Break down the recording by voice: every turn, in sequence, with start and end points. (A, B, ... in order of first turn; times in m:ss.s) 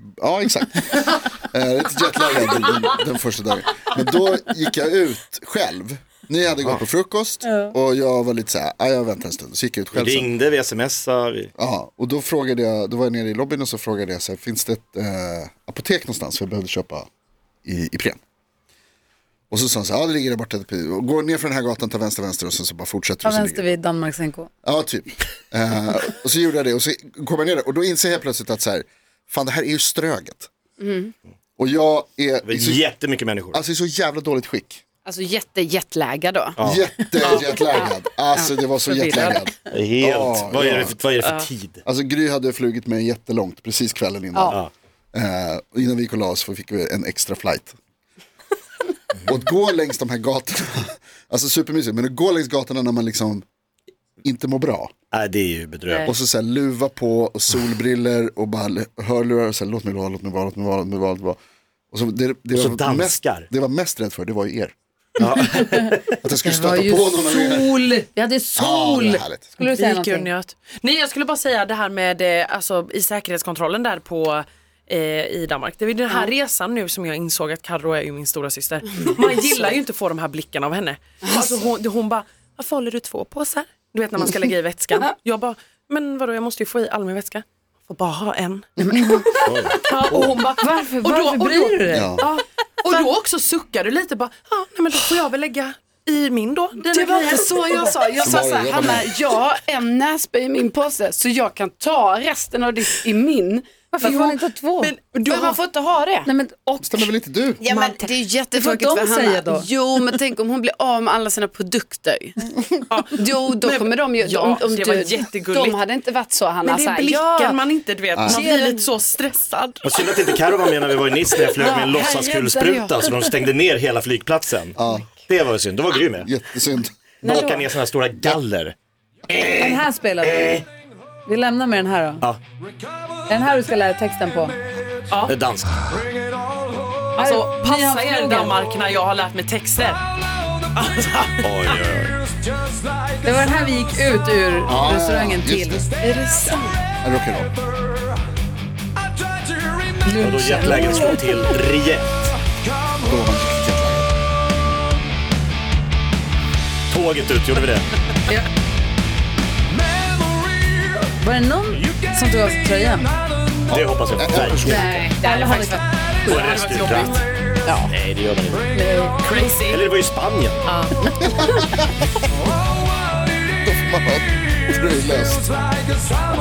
0:00.2-0:10.3 A
0:06.5-0:06.8 B
0:07.4-0:07.7 C
0:09.9-0:11.5 B
0:11.6-0:17.1 A
0:17.6-0:18.2 A
0:19.5-0:23.8 A
0:23.2-0:24.5 C
0:24.6-0:30.5 A
0:30.8-0:31.1 D
0:31.6-0:32.9 A
0:32.4-0:33.6 B
0:33.5-0:34.8 A
0:35.1-0:36.6 D
0:36.6-0:37.4 B
0:36.6-0:41.0 A
0:37.3-0:39.4 D
0:39.7-0:41.8 B
0:41.9-0:44.6 A
0:44.3-0:44.6 D
0:45.1-0:47.8 A
0:49.2-0:53.4 A
0:54.2-0:54.9 A
0:55.1-0:56.1 B
0:56.1-1:01.4 A
1:01.9-1:04.7 A
1:02.5-1:03.5 B
1:05.2-1:06.2 B
1:06.2-1:07.8 A
1:06.4-1:10.3 C
1:08.6-1:09.5 A
1:09.6-1:29.2 E
1:28.8-1:29.4 C
1:29.4-1:30.4 B
1:29.8-1:38.3 E
1:30.6-1:32.2 C
1:31.9-1:32.3 A
1:36.9-1:43.9 D
1:38.2-1:39.1 A
1:39.0-1:39.2 E
1:43.9-1:44.9 C
1:44.0-1:45.6 E
1:45.2-1:46.3 D
1:46.2-1:47.1 C
1:46.8-1:47.6 A
1:47.6-1:52.4 D
1:47.7-1:48.0 C
1:48.5-1:49.7 C
1:52.9-1:55.8 E
1:53.1-1:57.6 D
1:56.6-2:00.4 E
1:58.2-1:58.4 A
1:58.2-1:58.9 D
1:59.8-2:06.3 B
2:01.5-2:03.0 D
2:04.8-2:05.1 A
2:06.2-2:06.9 A
2:07.2-2:08.8 B
2:07.2-2:07.7 D
2:09.3-2:10.6 B
2:09.5-2:10.6 C
2:11.2-2:12.2 C
2:13.3-2:14.6 C
2:15.1-2:15.4 E
2:15.3-2:15.8 B
2:17.2-2:18.6 C
2:17.2-2:20.0 E
2:20.7-2:21.8 E
2:21.4-2:22.2 B
2:23.2-2:25.9 C
2:24.7-2:25.9 A
2:26.0-2:26.8 D
2:27.0-2:27.5 A
2:30.0-2:31.5 C
2:30.2-2:32.3 B
2:33.0-2:34.1 A
2:36.9-2:37.9 B
2:41.2-2:43.2 C
2:43.7-2:44.8 B
2:43.7-2:44.8 A
2:44.6-2:46.4 C
2:44.7-2:45.8 D
2:45.2-2:45.8 E
2:46.2-2:47.3 B
2:46.2-2:47.2 E
2:47.7-2:47.9 D
2:47.8-2:48.7 B
2:48.7-2:49.2 C
2:49.2-2:49.9 E
2:49.7-2:50.7 B
2:50.6-2:50.9 E
2:51.2-2:51.9 A
2:53.6-2:55.5 A